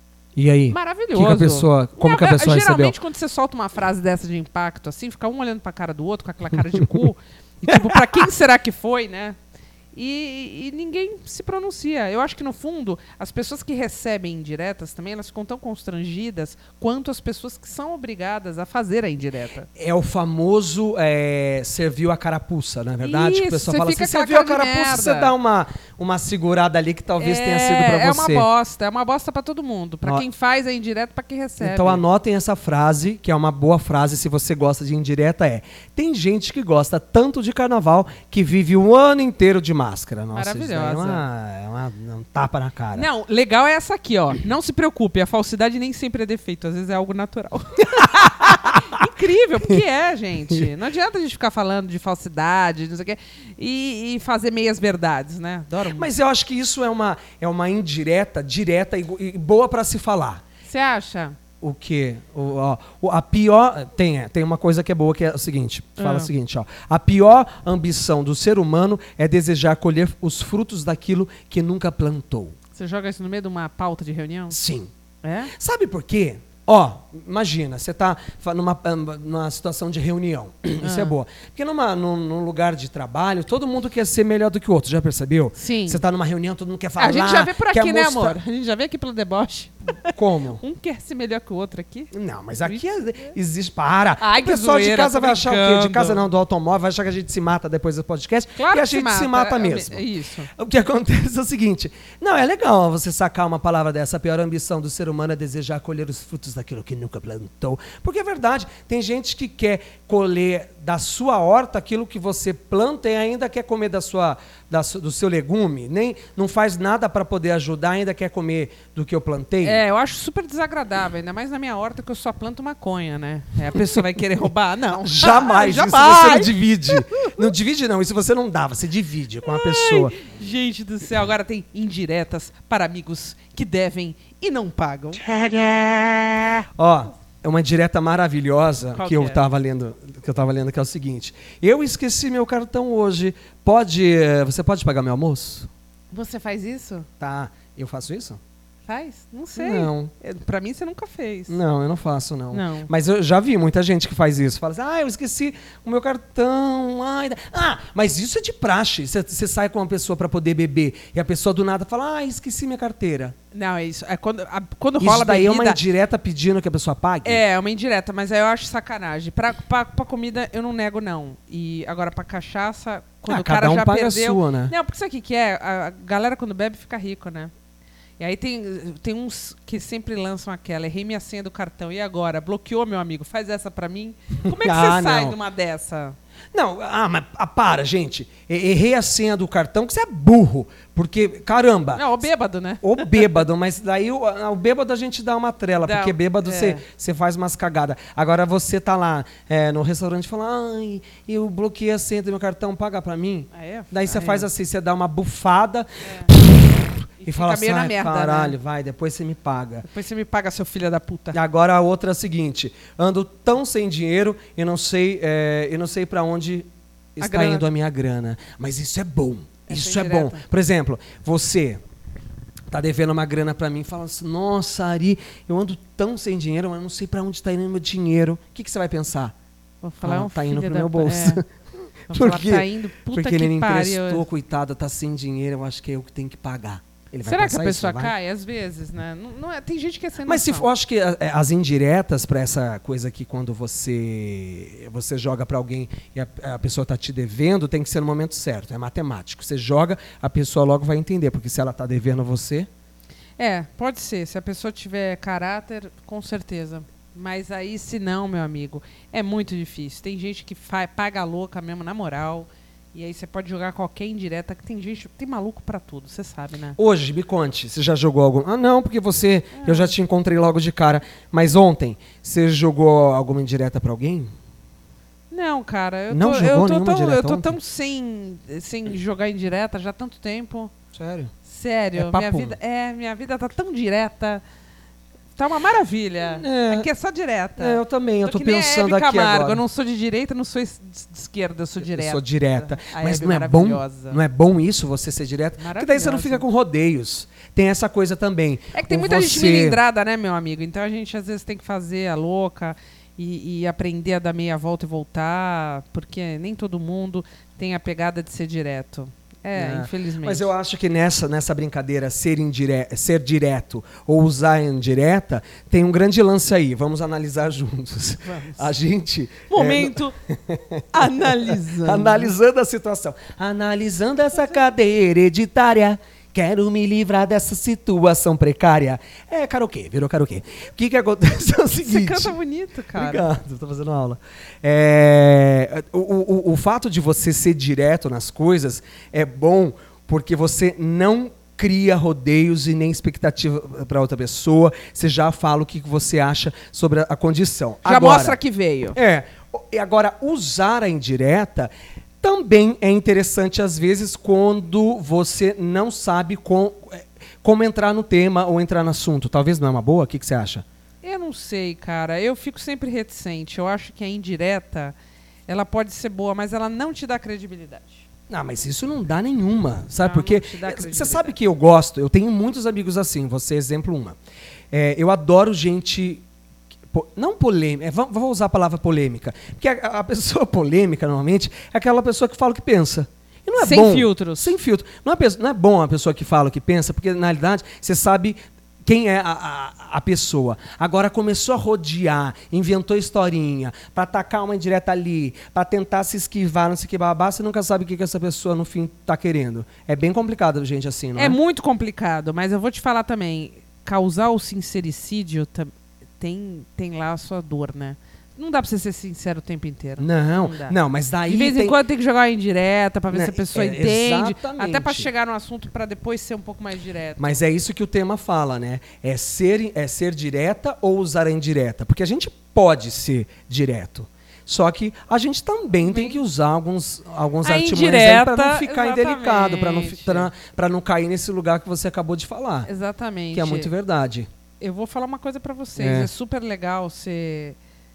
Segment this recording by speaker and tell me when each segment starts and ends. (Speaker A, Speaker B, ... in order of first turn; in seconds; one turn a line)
Speaker A: 0.3-3.0
Speaker B: 0.7-9.4
Speaker A: 6.6-7.1
Speaker A: 7.7-8.0
Speaker B: 9.9-19.7
Speaker A: 19.8-28.5
Speaker B: 23.0-25.3
Speaker B: 27.2-32.0
Speaker A: 31.6-43.1
Speaker B: 40.3-41.2
Speaker B: 43.0-56.1
Speaker A: 48.0-48.8
Speaker A: 55.9-60.4
Speaker B: 60.7-61.4
Speaker A: 61.6-72.6
Speaker B: 66.0-66.3
Speaker B: 72.8-74.6
Speaker A: 74.5-74.9
Speaker B: 75.2-75.5
Speaker A: 75.5-88.4
Speaker B: 80.8-81.2
Speaker B: 85.6-86.0
Speaker B: 87.0-92.1
Speaker A: 90.0-90.6
Speaker A: 92.1-119.8
Speaker B: 92.6-93.3
Speaker B: 94.2-96.2
Speaker B: 98.6-100.5
Speaker B: 119.6-127.4
Speaker A: 125.0-130.2
Speaker B: 129.5-135.2
Speaker A: 135.2-145.7
Speaker B: 138.9-139.4
Speaker B: 146.1-147.1
Speaker A: 147.2-148.4
Speaker B: 148.9-151.6
Speaker A: 149.6-150.1
Speaker A: 151.5-163.3
Speaker B: 152.5-152.9
Speaker B: 163.5-165.8
Speaker A: 165.0-167.4
Speaker B: 167.2-177.5
Speaker A: 173.3-174.7
Speaker B: 178.2-186.2
Speaker A: 184.5-185.4
Speaker A: 186.5-192.2
Speaker B: 191.9-193.4
Speaker A: 192.8-209.9
Speaker B: 195.8-196.8
Speaker B: 203.5-204.5
Speaker B: 206.0-206.3
Speaker B: 207.2-208.6
Speaker B: 209.8-211.4
Speaker A: 211.3-221.8
Speaker B: 217.2-217.7
Speaker B: 219.7-220.4
Speaker A: 222.7-229.3
Speaker B: 229.8-231.4
Speaker A: 230.0-231.5
Speaker A: 232.1-238.1
Speaker B: 232.1-234.2
Speaker B: 237.2-240.7
Speaker A: 240.2-252.7
Speaker B: 253.4-266.8
Speaker A: 266.8-274.3
Speaker B: 269.6-269.9
Speaker B: 275.3-280.7
Speaker A: 276.1-277.6
Speaker A: 280.9-281.3
Speaker B: 281.4-284.4
Speaker A: 282.0-282.6
Speaker B: 285.4-294.2
Speaker A: 286.3-286.9
Speaker A: 287.6-289.6
Speaker A: 291.8-299.8
Speaker B: 295.6-296.5
Speaker B: 298.7-310.5
Speaker A: 309.6-332.4
Speaker B: 318.2-318.6
Speaker B: 319.5-320.2
Speaker B: 320.9-322.3
Speaker B: 331.8-333.3
Speaker A: 332.9-348.4
Speaker B: 347.9-349.0
Speaker A: 348.9-360.6
Speaker B: 361.0-364.9
Speaker B: 365.5-368.1
Speaker A: 368.3-374.2
Speaker B: 370.0-371.4
Speaker A: 374.7-376.2
Speaker A: 376.9-401.4
Speaker B: 383.6-384.5
Speaker B: 401.2-417.4
Speaker A: 410.0-411.8
Speaker A: 413.1-415.1
Speaker A: 417.2-432.7
Speaker B: 425.9-426.2
Speaker B: 427.4-430.3
Speaker B: 432.7-433.7
Speaker A: 433.3-434.3
Speaker B: 434.6-437.6
Speaker A: 435.8-436.1